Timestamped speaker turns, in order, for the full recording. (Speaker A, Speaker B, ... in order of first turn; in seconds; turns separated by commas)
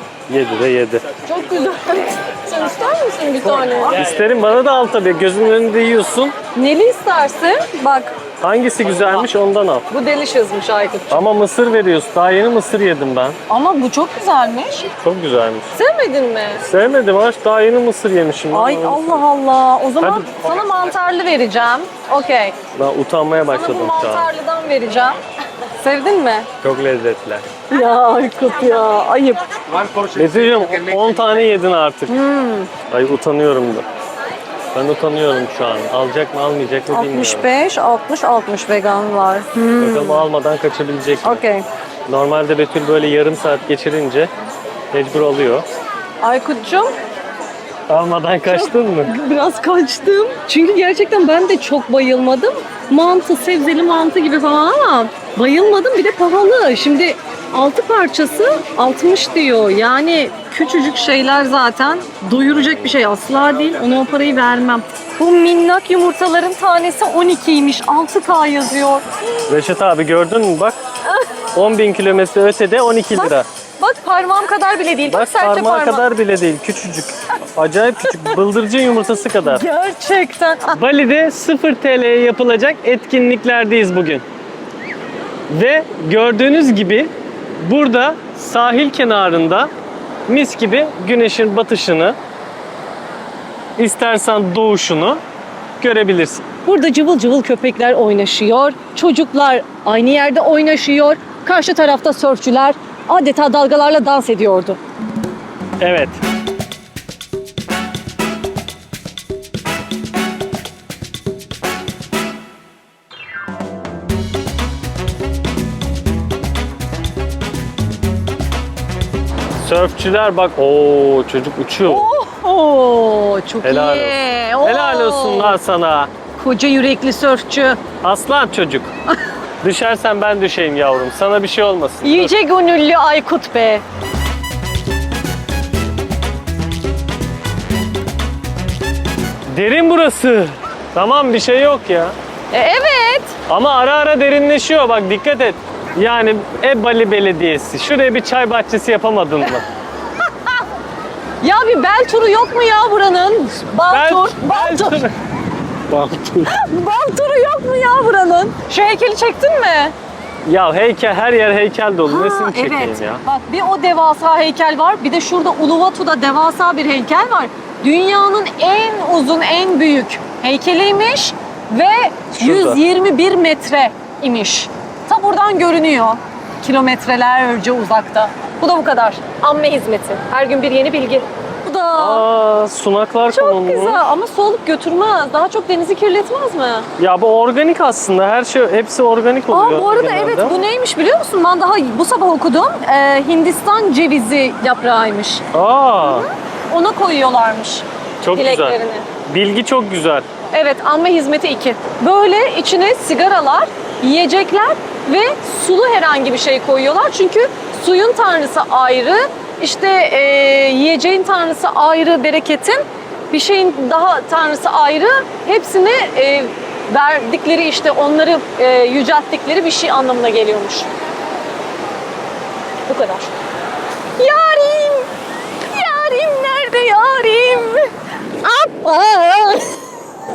Speaker A: 0.3-1.0, Speaker B: 1.2-4.0, Speaker A: 3.5-6.3, Speaker B: 6.5-8.2, Speaker A: 8.4-9.9, Speaker B: 9.9-11.2, Speaker A: 11.1-13.4, Speaker B: 13.5-14.9, Speaker A: 15.0-15.7, Speaker B: 15.7-16.6, Speaker A: 16.6-19.2, Speaker B: 18.5-22.6, Speaker A: 20.0-20.5, Speaker A: 22.7-24.3, Speaker B: 23.4-25.2, Speaker B: 25.8-26.5, Speaker A: 26.6-27.5, Speaker B: 27.7-29.6, Speaker A: 30.1-32.1, Speaker B: 32.1-32.7, Speaker A: 32.9-33.9, Speaker A: 34.7-37.5, Speaker B: 36.9-40.2, Speaker A: 39.8-41.4, Speaker B: 41.2-41.6, Speaker A: 42.1-44.3, Speaker A: 44.9-45.6, Speaker B: 46.2-47.0, Speaker A: 47.9-49.1, Speaker B: 48.4-69.1, Speaker A: 69.5-70.8, Speaker A: 71.5-73.5, Speaker B: 73.1-76.0, Speaker A: 75.0-79.7, Speaker B: 78.1-78.3, Speaker B: 79.4-80.8, Speaker A: 80.7-84.2, Speaker A: 85.5-89.7, Speaker A: 90.3-92.2, Speaker A: 93.8-95.2, Speaker A: 95.8-96.5, Speaker B: 96.6-104.8, Speaker A: 105.8-106.2, Speaker A: 119.6-122.1, Speaker B: 121.8-125.6, Speaker A: 123.6-126.1, Speaker B: 126.3-127.8, Speaker A: 128.0-128.9, Speaker A: 129.6-132.3, Speaker B: 132.0-133.8, Speaker A: 139.5-142.2, Speaker B: 142.5-143.3, Speaker A: 143.5-149.7, Speaker B: 151.4-155.0, Speaker A: 153.9-155.1, Speaker A: 155.9-156.6, Speaker B: 156.4-159.9, Speaker A: 160.4-163.2, Speaker B: 162.1-182.3, Speaker A: 172.4-172.8, Speaker A: 182.0-184.1, Speaker B: 183.3-186.9, Speaker A: 187.0-190.6, Speaker B: 189.5-195.4, Speaker A: 195.5-196.3, Speaker B: 196.0-199.1, Speaker A: 198.2-200.3, Speaker B: 200.5-220.9, Speaker B: 222.8-223.3, Speaker B: 224.2-225.1, Speaker B: 225.6-229.8